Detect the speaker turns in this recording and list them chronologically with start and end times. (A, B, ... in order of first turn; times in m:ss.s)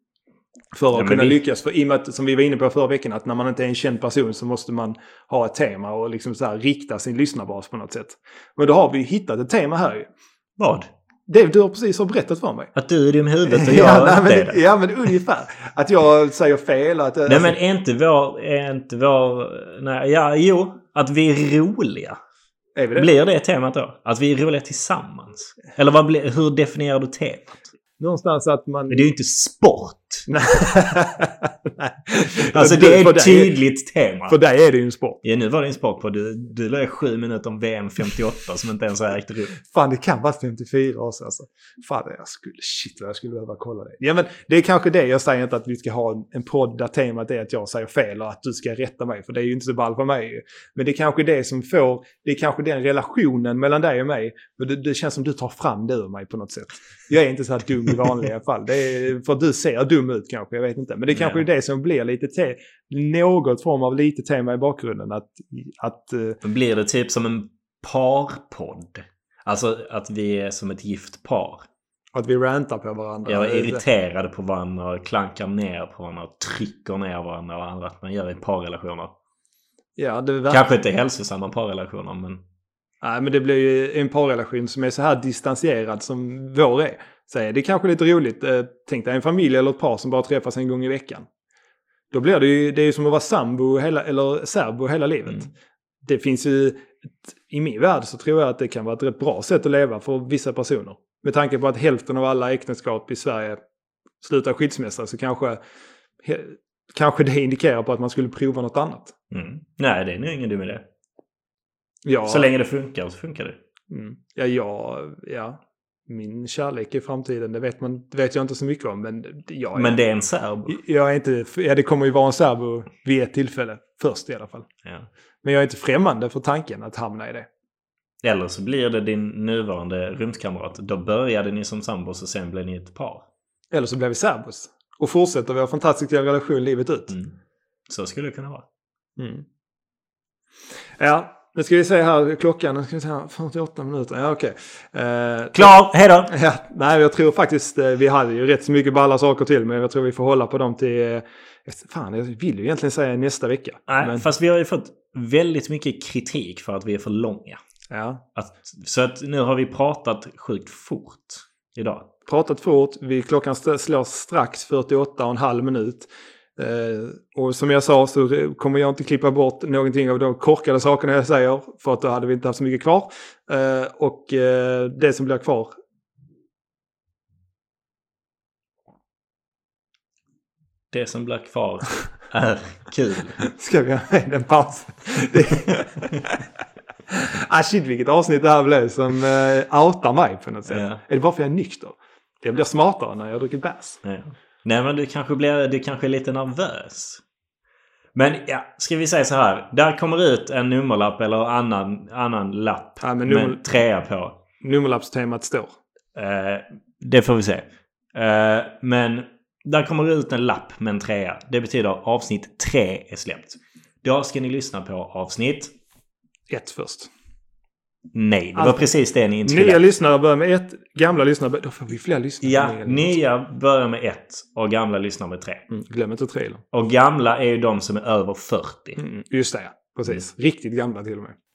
0:00.7-0:10.1 A
0:00.9-0:01.4 B
0:10.6-0:10.9 B
0:11.3-0:12.7 A
0:12.7-0:14.6 B
0:13.4-0:17.6 A
0:17.2-0:22.2 B
0:22.8-0:23.1 A
0:23.0-0:27.6 B
0:28.0-0:29.1 A
0:28.9-0:30.3 B
0:30.3-0:33.5 A
0:32.4-0:34.4 B
0:34.3-0:35.2 A
0:35.2-0:39.5 B
0:39.6-1:06.4 A
1:01.1-1:01.4 B
1:06.4-1:11.6 B
1:12.1-1:13.8 A
1:13.2-1:19.1 B
1:20.0-1:20.6 A
1:20.5-1:22.4 B
1:23.0-1:31.2 A
1:32.1-1:35.5 A
1:36.0-1:43.6 A
1:44.2-1:45.6 A
1:46.2-1:49.1 A
1:49.3-1:50.8 B
1:52.0-1:52.5 A
1:52.2-1:53.6 B
1:53.9-2:00.0 A
1:59.7-2:00.8 B
2:00.6-2:04.7 A
2:05.4-2:07.5 A
2:08.2-2:13.2 B
2:13.7-2:17.2 A
2:17.9-2:18.6 B
2:19.2-2:19.4 A
2:21.0-2:25.7 A
2:25.5-2:26.3 B
2:26.3-2:34.2 A
2:33.9-2:37.6 B
2:37.9-2:38.2 A
2:38.4-2:42.1 B
2:42.2-2:55.7 A
3:00.9-3:03.4 B
3:03.4-3:06.4 A
3:07.1-3:14.0 A
3:10.7-3:11.0 B
3:14.0-3:17.2 B
3:18.1-3:24.4 B
3:23.0-3:23.6 A
3:24.6-3:25.7 A
3:26.1-3:35.7 B
3:36.5-3:37.1 A
3:38.1-3:39.8 B
3:38.5-3:38.9 A
3:39.4-3:43.1 A
3:42.4-3:45.6 B
3:45.7-3:46.6 A
3:46.7-3:49.0 B
3:49.0-3:51.3 A